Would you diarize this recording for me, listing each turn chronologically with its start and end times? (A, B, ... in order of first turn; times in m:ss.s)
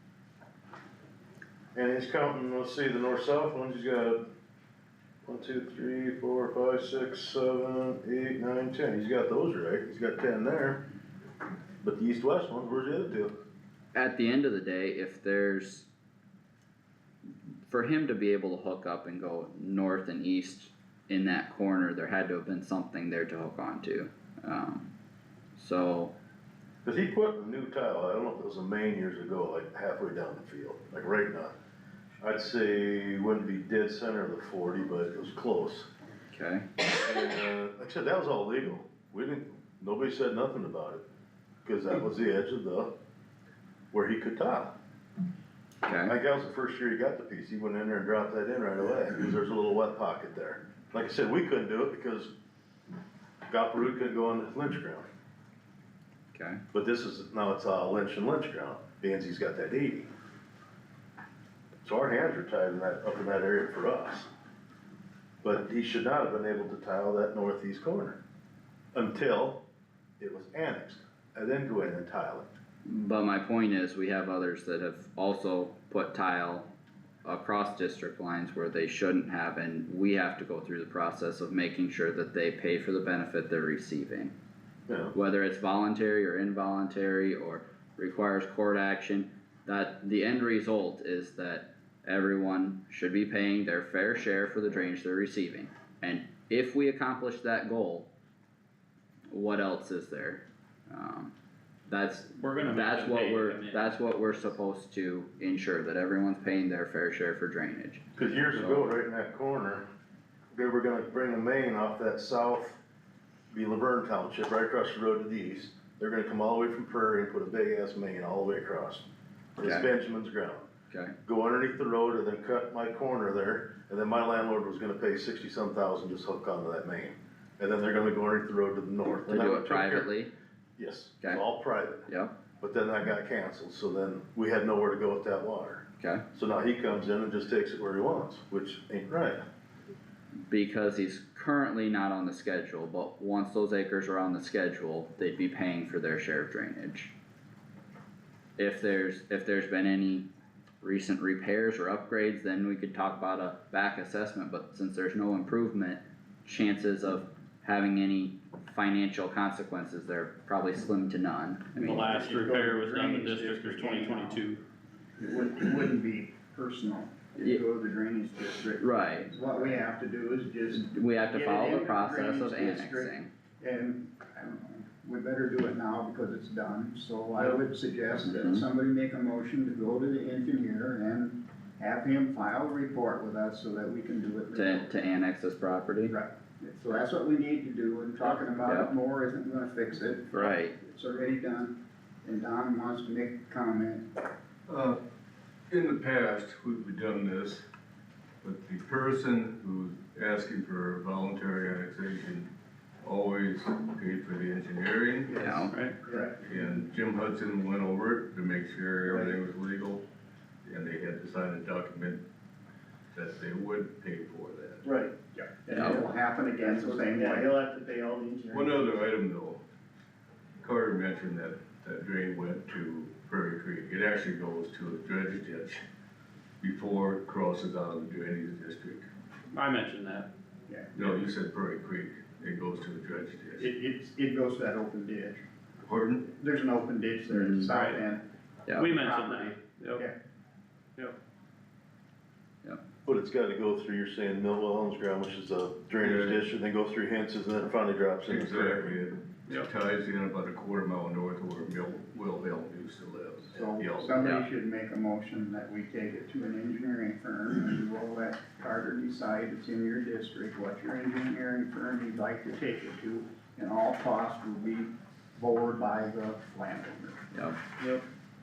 0:01.8-0:04.2 A
0:05.3-0:10.8 A
0:11.8-0:13.3 A
0:13.9-0:15.9 B
0:17.7-0:24.9 B
0:25.6-0:26.1 B
0:26.8-0:31.5 A
0:32.2-0:35.9 A
0:36.3-0:36.7 B
0:37.0-0:41.0 A
0:41.6-0:42.9 A
0:43.9-0:44.8 A
0:45.8-0:46.1 B
0:46.0-0:52.3 A
0:53.5-0:55.1 A
0:56.3-0:56.6 B
0:56.7-1:00.1 A
1:01.8-1:04.3 A
1:05.4-1:08.2 A
1:08.9-1:09.6 A
1:10.2-1:12.5 A
1:12.8-1:16.7 B
1:17.2-1:24.3 B
1:24.9-1:25.1 A
1:25.1-1:38.1 B
1:39.3-1:41.3 B
1:41.9-1:48.9 B
1:42.4-1:44.5 C
1:48.2-1:49.9 A
1:50.5-1:52.8 A
1:53.5-1:59.0 A
1:59.6-1:59.9 B
1:59.6-2:00.7 A
2:00.9-2:01.2 B
2:01.3-2:10.1 A
2:09.3-2:10.3 B
2:10.8-2:12.1 A
2:12.1-2:12.3 B
2:12.6-2:19.4 A
2:20.5-2:27.1 B
2:28.6-2:30.3 B
2:30.8-2:42.2 B
2:41.8-2:44.6 C
2:41.8-2:44.5 D
2:45.2-3:04.9 D
2:48.8-2:49.3 B
2:50.7-2:53.3 B
2:58.2-2:58.6 B
3:04.6-3:06.2 B
3:06.1-3:14.1 D
3:08.6-3:08.9 B
3:10.3-3:10.8 B
3:14.7-3:15.0 E
3:15.7-3:17.6 E
3:18.4-3:22.5 E
3:23.0-3:25.4 E
3:25.3-3:26.4 D
3:25.4-3:25.7 B
3:25.7-3:26.0 C
3:26.4-3:30.0 E
3:29.1-3:29.4 D
3:30.6-3:32.2 E
3:33.1-3:34.9 E
3:34.9-3:35.1 F
3:35.2-3:37.6 D
3:35.7-3:38.9 F
3:38.5-3:39.6 E
3:40.6-3:45.8 E
3:46.6-3:49.1 E
3:49.5-3:50.3 C
3:51.0-3:53.7 E
3:53.6-3:55.4 D
3:55.8-3:56.2 E
3:56.3-4:00.2 D
3:57.3-3:57.8 B
3:57.7-3:58.0 C
3:58.8-4:00.1 C
4:03.0-4:09.0 A
4:06.0-4:06.4 E
4:08.3-4:14.3 E
4:13.5-4:27.2 D
4:27.3-4:27.6 B
4:27.8-4:28.1 C